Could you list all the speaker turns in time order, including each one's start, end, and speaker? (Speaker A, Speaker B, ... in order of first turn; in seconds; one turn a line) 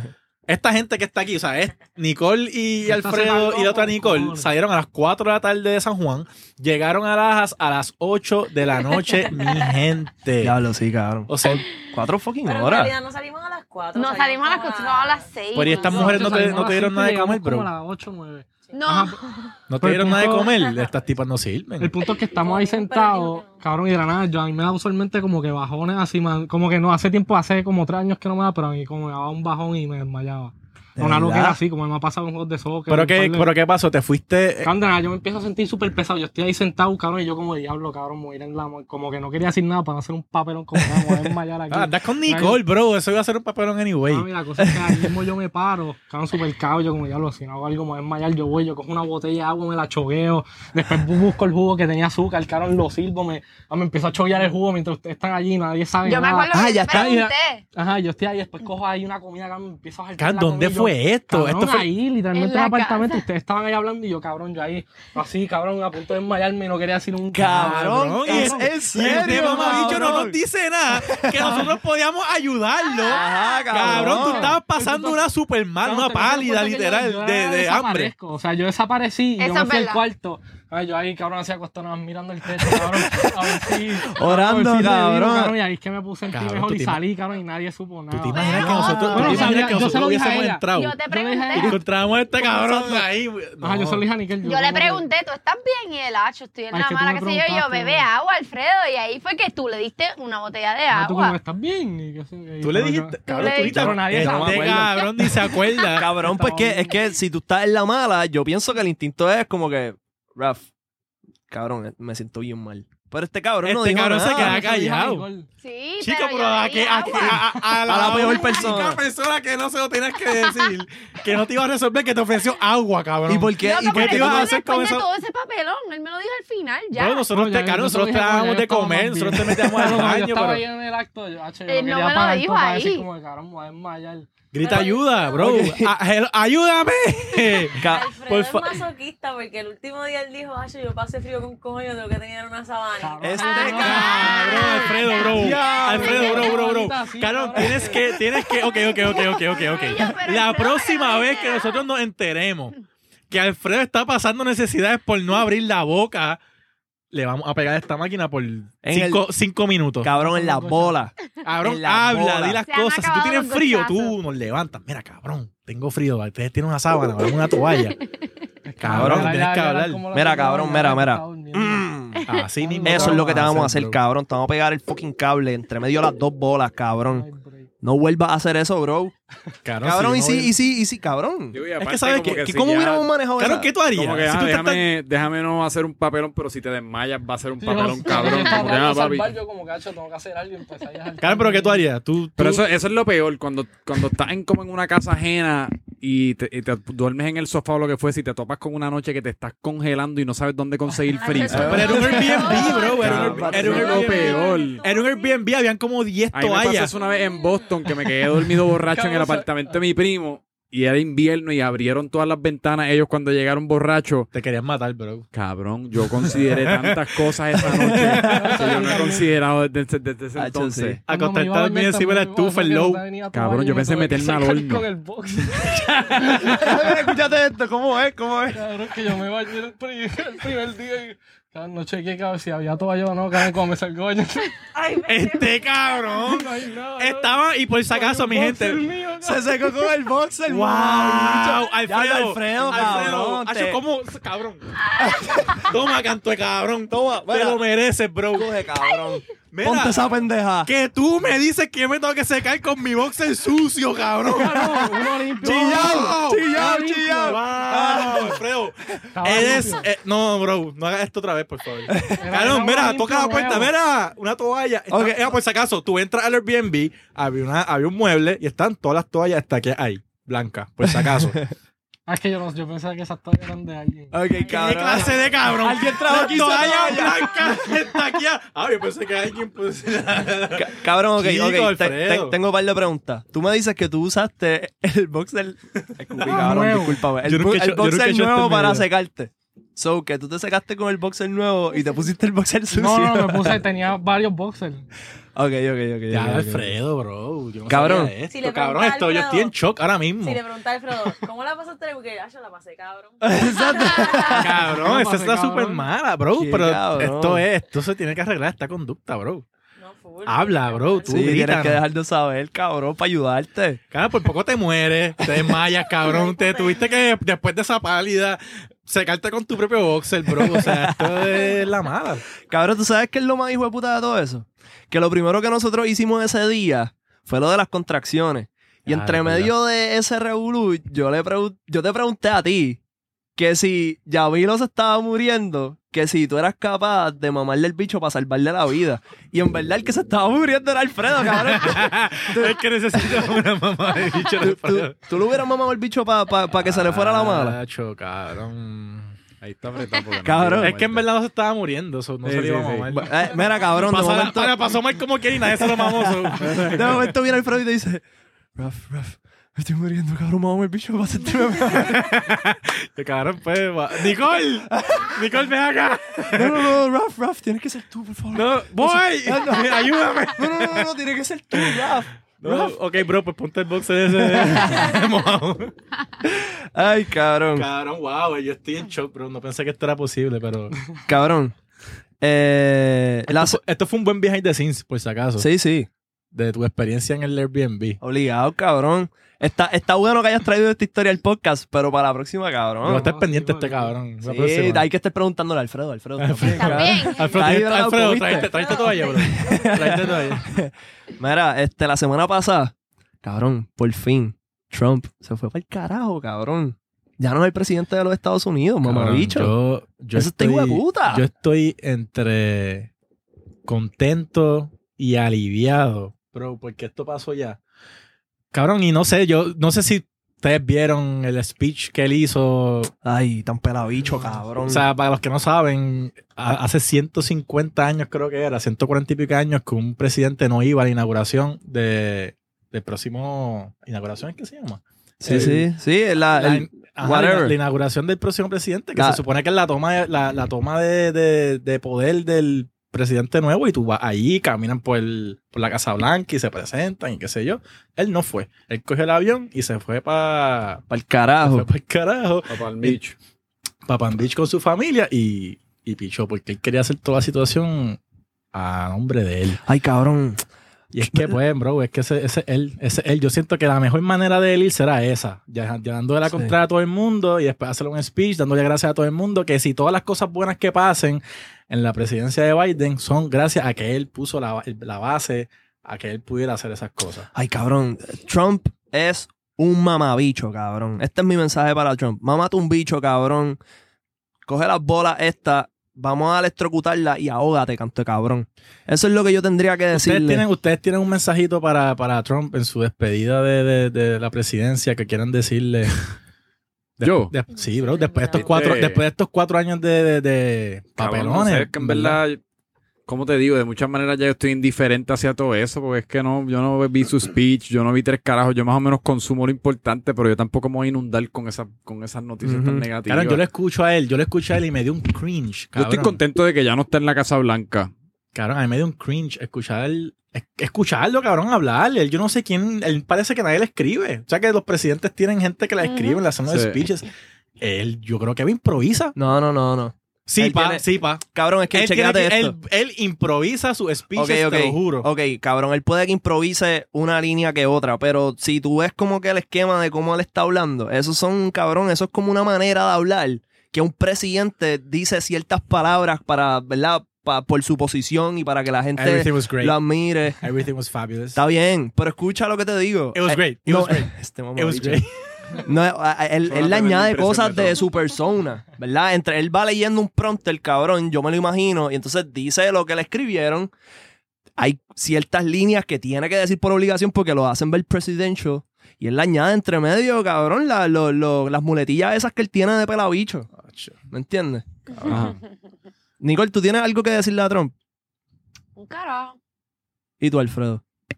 Speaker A: 0.5-10.6
Speaker B: 2.8-4.5
Speaker C: 10.4-12.9
Speaker A: 11.3-11.6
Speaker D: 12.4-16.0
Speaker E: 13.9-16.5
Speaker A: 15.5-17.7
Speaker B: 15.8-19.2
Speaker E: 18.7-19.5
Speaker A: 19.7-22.0
Speaker B: 19.8-20.6
Speaker B: 21.8-33.5
Speaker D: 22.3-23.6
Speaker C: 31.0-31.6
Speaker A: 32.9-34.7
Speaker B: 34.6-42.6
Speaker A: 41.7-44.3
Speaker B: 44.1-70.2
Speaker C: 44.6-45.0
Speaker E: 56.0-57.6
Speaker C: 56.5-57.2
Speaker A: 60.2-61.9
Speaker E: 62.3-63.2
Speaker C: 67.3-70.4
Speaker A: 67.5-78.1
Speaker C: 71.0-71.7
Speaker E: 72.8-73.8
Speaker C: 73.1-74.6
Speaker B: 73.8-75.3
Speaker B: 75.8-91.8
Speaker E: 79.4-80.0
Speaker C: 82.7-85.5
Speaker A: 86.3-87.0
Speaker A: 88.1-91.0
Speaker E: 88.3-89.7
Speaker C: 88.7-89.7
Speaker E: 90.7-91.8
Speaker A: 91.5-94.0
Speaker B: 93.6-95.1
Speaker E: 94.4-101.4
Speaker B: 96.7-98.1
Speaker B: 100.9-105.3
Speaker A: 102.6-106.1
Speaker E: 103.3-105.1
Speaker C: 104.2-104.8
Speaker C: 105.9-110.7
Speaker B: 106.1-107.0
Speaker C: 111.5-114.6
Speaker A: 113.6-115.3
Speaker B: 114.4-115.5
Speaker E: 115.6-117.5
Speaker A: 116.0-125.1
Speaker C: 117.9-119.0
Speaker E: 120.3-120.7
Speaker C: 123.3-124.5
Speaker E: 123.6-127.3
Speaker A: 126.9-130.6
Speaker B: 127.3-134.8
Speaker E: 131.7-133.1
Speaker A: 134.5-138.8
Speaker D: 134.6-135.6
Speaker C: 135.4-135.9
Speaker D: 137.6-144.0
Speaker C: 137.8-138.1
Speaker B: 143.0-148.2
Speaker C: 143.2-144.3
Speaker E: 143.5-146.5
Speaker A: 143.7-152.7
Speaker C: 145.3-146.5
Speaker E: 148.8-151.8
Speaker A: 153.3-156.4
Speaker A: 157.1-160.2
Speaker C: 158.8-159.2
Speaker C: 160.0-162.6
Speaker B: 160.1-161.1
Speaker A: 161.4-168.0
Speaker E: 162.7-164.2
Speaker B: 168.7-171.9
Speaker A: 168.8-170.1
Speaker C: 168.9-169.3
Speaker C: 170.1-172.2
Speaker A: 172.2-174.0
Speaker B: 172.6-173.4
Speaker C: 172.8-177.3
Speaker B: 177.1-177.7
Speaker C: 177.8-179.1
Speaker A: 179.6-180.5
Speaker C: 179.8-181.6
Speaker F: 181.5-183.1
Speaker A: 181.8-184.9
Speaker C: 182.6-183.7
Speaker F: 183.9-189.3
Speaker B: 187.6-191.9
Speaker A: 191.2-192.7
Speaker F: 192.4-204.8
Speaker D: 201.1-205.5
Speaker C: 201.5-204.1
Speaker A: 201.5-206.9
Speaker E: 201.8-203.1
Speaker F: 206.3-214.3
Speaker D: 206.8-207.8
Speaker B: 208.9-209.7
Speaker A: 214.3-215.3
Speaker F: 215.3-221.0
Speaker A: 216.0-219.2
Speaker B: 218.2-219.3
Speaker C: 220.3-221.0
Speaker A: 221.1-223.0
Speaker B: 221.1-227.1
Speaker F: 223.3-224.9
Speaker C: 226.2-228.6
Speaker B: 228.5-234.6
Speaker D: 234.8-235.8
Speaker A: 235.1-238.8
Speaker B: 236.2-239.7
Speaker C: 239.2-243.8
Speaker A: 240.5-244.6
Speaker C: 245.0-245.6
Speaker E: 245.2-245.4
Speaker A: 245.5-248.5
Speaker C: 246.9-247.6
Speaker C: 248.3-250.7
Speaker A: 249.5-254.9
Speaker B: 254.3-257.4
Speaker C: 254.6-258.4
Speaker A: 255.4-271.4
Speaker B: 259.1-259.9
Speaker C: 261.9-262.3
Speaker B: 262.1-263.7
Speaker C: 264.9-265.3
Speaker C: 270.9-271.5
Speaker B: 272.1-274.2
Speaker C: 274.1-277.8
Speaker D: 274.4-274.6
Speaker A: 274.5-282.4
Speaker C: 280.6-293.6
Speaker A: 286.2-286.6
Speaker B: 286.2-287.0
Speaker A: 287.2-288.9
Speaker B: 292.7-294.8
Speaker C: 295.4-296.7
Speaker A: 296.1-300.4
Speaker C: 297.7-298.1
Speaker D: 298.3-299.5
Speaker D: 300.2-304.4
Speaker C: 303.2-304.6
Speaker A: 304.3-309.4
Speaker B: 304.6-305.9
Speaker C: 306.3-307.4
Speaker D: 309.8-311.4
Speaker A: 310.2-311.8
Speaker C: 311.1-313.8
Speaker A: 313.9-322.2
Speaker D: 316.0-316.9
Speaker C: 320.3-321.4
Speaker C: 322.5-332.8
Speaker A: 328.9-329.5
Speaker C: 333.4-343.2
Speaker A: 341.2-345.0
Speaker C: 344.4-347.6
Speaker A: 346.5-349.2
Speaker F: 349.4-351.1
Speaker C: 350.2-350.8
Speaker A: 350.6-357.1
Speaker F: 352.2-352.9
Speaker C: 352.9-354.7
Speaker D: 353.3-353.8
Speaker C: 355.5-358.0
Speaker C: 358.6-362.1
Speaker A: 361.7-366.8
Speaker C: 364.7-365.1
Speaker C: 366.3-372.8
Speaker A: 368.3-370.9
Speaker A: 371.5-375.7
Speaker C: 374.3-374.9
Speaker C: 376.3-377.6
Speaker A: 377.5-380.7
Speaker C: 381.1-381.5
Speaker C: 382.2-383.6
Speaker A: 383.3-385.5
Speaker C: 385.4-385.9
Speaker A: 386.3-388.0
Speaker C: 388.0-393.1
Speaker B: 392.8-393.9
Speaker A: 392.8-394.9
Speaker C: 394.2-398.7
Speaker A: 396.2-400.4
Speaker E: 396.5-397.5
Speaker D: 398.4-399.7
Speaker C: 399.2-409.5
Speaker A: 408.8-412.9
Speaker C: 410.1-411.2
Speaker A: 413.7-417.6
Speaker A: 418.5-422.9
Speaker C: 423.0-424.8
Speaker A: 424.6-435.7
Speaker C: 435.2-437.6
Speaker A: 436.3-450.8
Speaker C: 438.9-439.2
Speaker C: 450.9-451.7
Speaker A: 451.4-453.0
Speaker F: 452.5-453.1
Speaker A: 453.9-458.0
Speaker A: 458.5-459.6
Speaker C: 459.6-460.4
Speaker A: 460.9-477.3
Speaker C: 461.0-461.4
Speaker C: 466.3-466.5
Speaker C: 477.3-483.6
Speaker C: 484.5-490.4
Speaker A: 489.9-496.1
Speaker A: 497.0-502.2
Speaker F: 497.0-497.3
Speaker D: 497.6-498.6
Speaker F: 498.3-499.0
Speaker F: 501.0-502.4
Speaker F: 503.1-513.4
Speaker C: 512.4-512.9
Speaker A: 513.1-516.2
Speaker F: 515.7-517.9
Speaker A: 518.3-529.1
Speaker E: 525.8-526.2
Speaker F: 526.5-526.8
Speaker C: 529.1-532.5
Speaker A: 530.2-535.1
Speaker C: 534.1-550.4
Speaker A: 549.0-549.8
Speaker A: 550.4-551.4
Speaker C: 551.3-555.0
Speaker A: 553.1-555.1
Speaker C: 555.6-563.7
Speaker F: 556.5-557.8
Speaker C: 564.6-573.5
Speaker A: 573.5-574.0
Speaker C: 574.1-574.6
Speaker A: 575.0-575.3
Speaker F: 575.0-575.4
Speaker C: 576.2-577.7
Speaker E: 578.8-579.4
Speaker C: 580.2-580.8